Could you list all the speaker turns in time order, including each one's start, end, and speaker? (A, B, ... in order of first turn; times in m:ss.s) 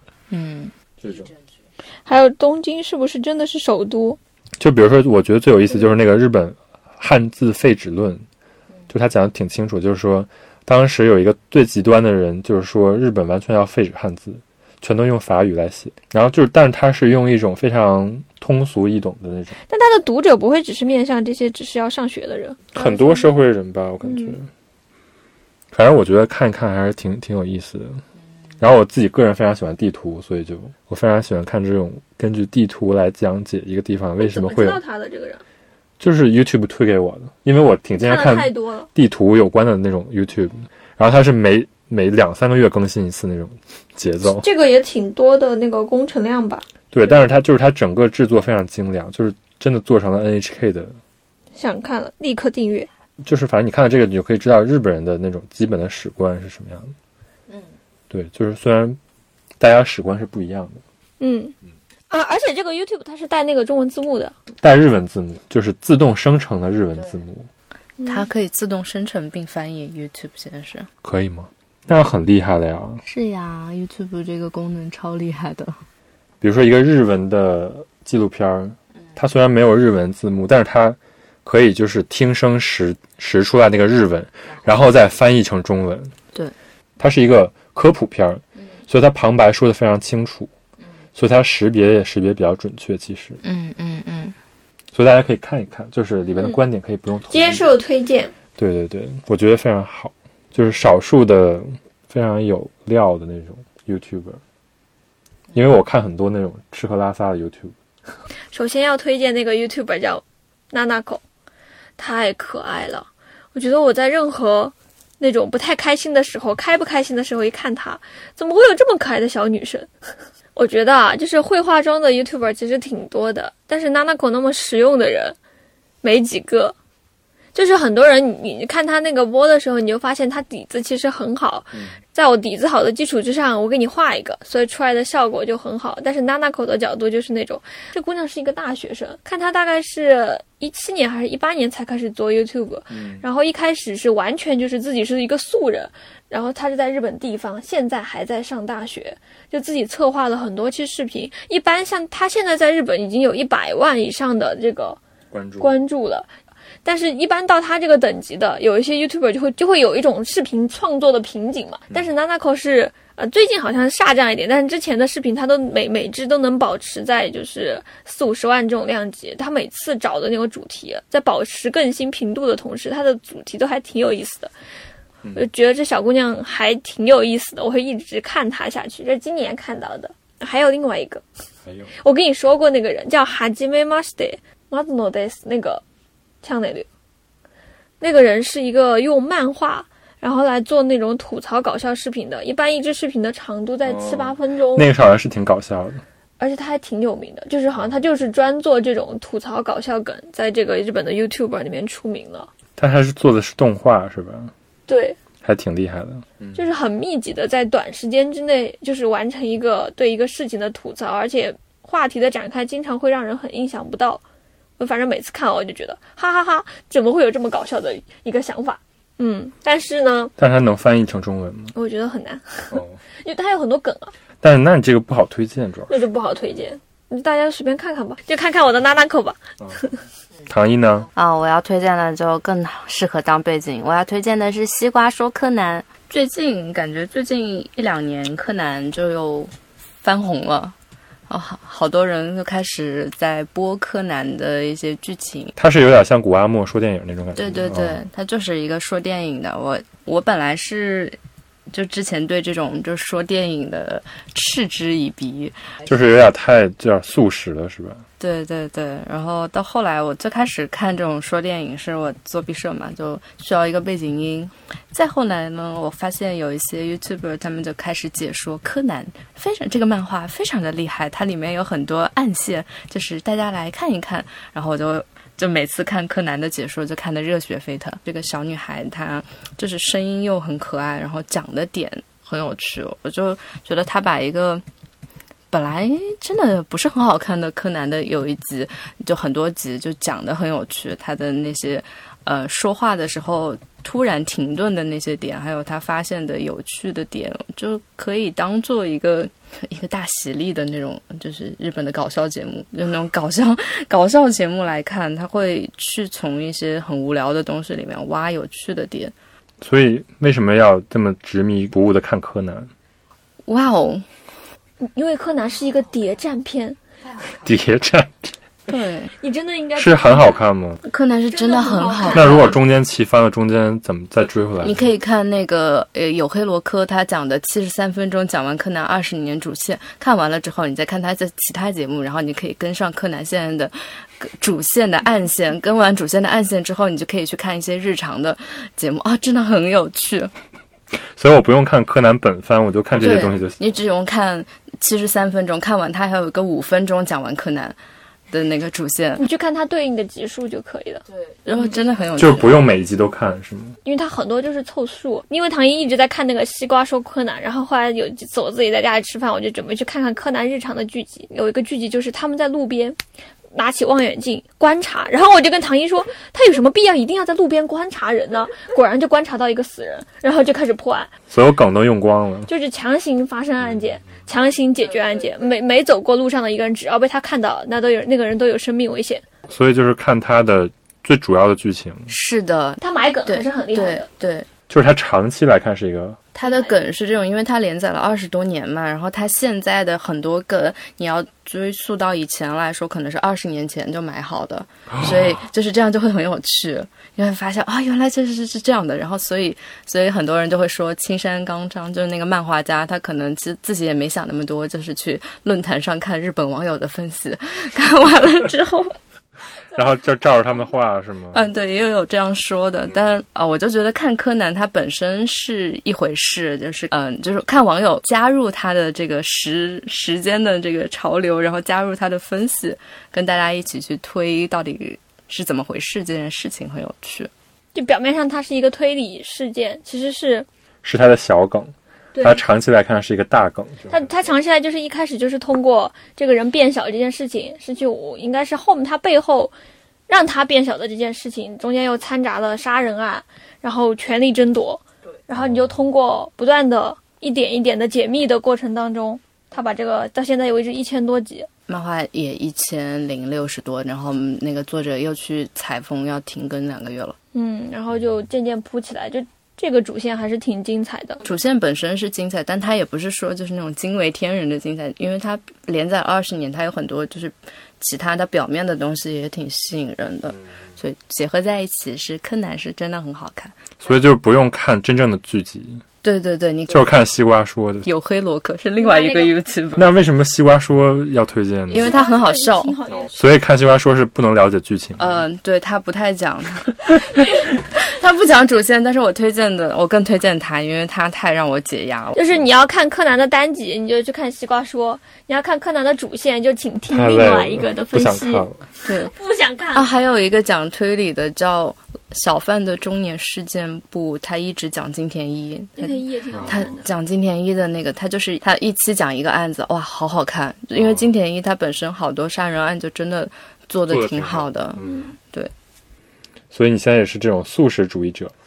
0:00.3-0:00.7 A
0:01.0-0:01.3 B
0:02.1-0:04.2 C
0:04.6-0:08.2 B
0:08.9-0:19.6 B
0:19.7-0:23.3 C
0:22.7-0:24.5 B
0:24.1-0:24.3 C
0:25.7-0:28.0 B
0:28.6-0:34.8 B
0:34.2-0:35.4 C
0:36.0-0:44.4 B
0:38.0-0:38.9 C
0:44.3-0:46.6 C
0:46.9-0:51.0 B
0:51.6-0:52.9 C
0:53.2-0:56.9 B
0:58.1-0:59.0 B
0:59.6-1:00.8 B
1:01.2-1:01.5 C
1:02.1-1:04.4 C
1:04.6-1:07.5 B
1:08.0-1:08.3 C
1:08.0-1:10.9 A
1:11.0-1:13.0 B
1:13.0-1:15.8 A
1:16.4-1:26.1 B
1:27.0-1:30.5 B
1:31.2-1:33.4 B
1:33.4-1:34.4 A
1:34.9-1:37.7 B
1:37.3-1:38.3 C
1:38.6-1:44.4 B
1:45.5-1:47.7 B
1:48.5-1:51.2 C
1:52.0-1:59.9 C
2:00.5-2:05.4 C
2:06.0-2:06.8 C
2:07.6-2:35.0 C
2:11.7-2:12.0 B
2:22.9-2:23.2 B
2:35.3-2:35.7 B
2:35.6-2:36.3 C
2:36.8-2:54.5 C
2:55.4-3:01.2 C
3:01.6-3:02.0 B
3:02.0-3:05.8 C
3:06.4-3:06.9 C
3:08.0-3:14.9 C
3:13.8-3:16.0 B
3:16.4-3:22.5 C
3:22.8-3:24.5 B
3:24.9-3:25.2 C
3:25.4-3:26.6 B
3:26.6-3:34.2 C
3:34.8-3:40.3 C
3:40.4-3:41.7 B
3:41.7-3:44.1 C
3:42.7-3:43.0 B
3:44.4-3:46.0 B
3:45.9-3:50.0 C
3:50.5-3:51.1 B
3:51.1-4:00.8 A
4:01.3-4:05.6 A
4:05.6-4:08.0 B
4:07.4-4:11.2 A
4:11.7-4:15.7 A
4:15.9-4:18.0 B
4:18.2-4:44.6 A
4:45.5-5:09.1 A
5:09.6-5:12.7 B
5:13.4-5:14.0 A
5:14.8-5:16.8 C
5:17.4-5:18.3 B
5:18.7-5:19.1 A
5:19.2-5:20.4 C
5:19.8-5:20.8 B
5:20.8-5:22.6 A
5:21.3-5:22.6 C
5:22.1-5:24.9 B
5:24.6-5:40.3 A
5:41.2-5:43.6 B
5:43.0-5:47.8 A
5:48.3-5:49.2 A
5:49.2-5:51.0 C
5:51.4-5:52.6 A
5:52.2-5:53.8 B
5:53.8-6:03.0 C
6:03.5-6:11.1 C
6:11.3-6:12.5 B
6:12.5-6:19.2 C
6:19.5-6:22.1 B
6:22.1-6:24.5 A
6:22.8-6:24.1 C
6:24.7-6:26.2 B
6:26.4-6:49.0 A
6:26.4-6:26.7 C
6:34.9-6:35.2 B
6:49.7-6:51.5 B
6:51.3-7:07.3 A
7:07.8-7:10.5 C
7:10.8-7:14.0 B
7:12.2-7:12.4 C
7:13.9-7:19.5 C
7:20.1-7:31.5 C
7:25.4-7:25.7 B
7:31.7-7:37.2 A
7:37.3-7:41.2 C
7:41.2-7:53.7 A
7:53.8-7:55.8 B
7:56.0-7:57.0 A
7:56.7-7:57.9 B
7:57.8-7:59.9 A
7:58.8-7:59.4 C
7:59.8-8:02.0 B
8:01.7-8:02.8 A
8:01.7-8:03.3 C
8:02.9-8:05.2 B
8:05.0-8:12.4 A
8:12.2-8:19.9 C
8:16.9-8:18.6 B
8:18.9-8:19.1 A
8:19.7-8:35.5 A
8:25.8-8:26.9 C
8:26.3-8:26.7 B
8:30.8-8:31.1 B
8:33.9-8:35.0 B
8:34.8-8:35.1 C
8:36.5-8:38.3 B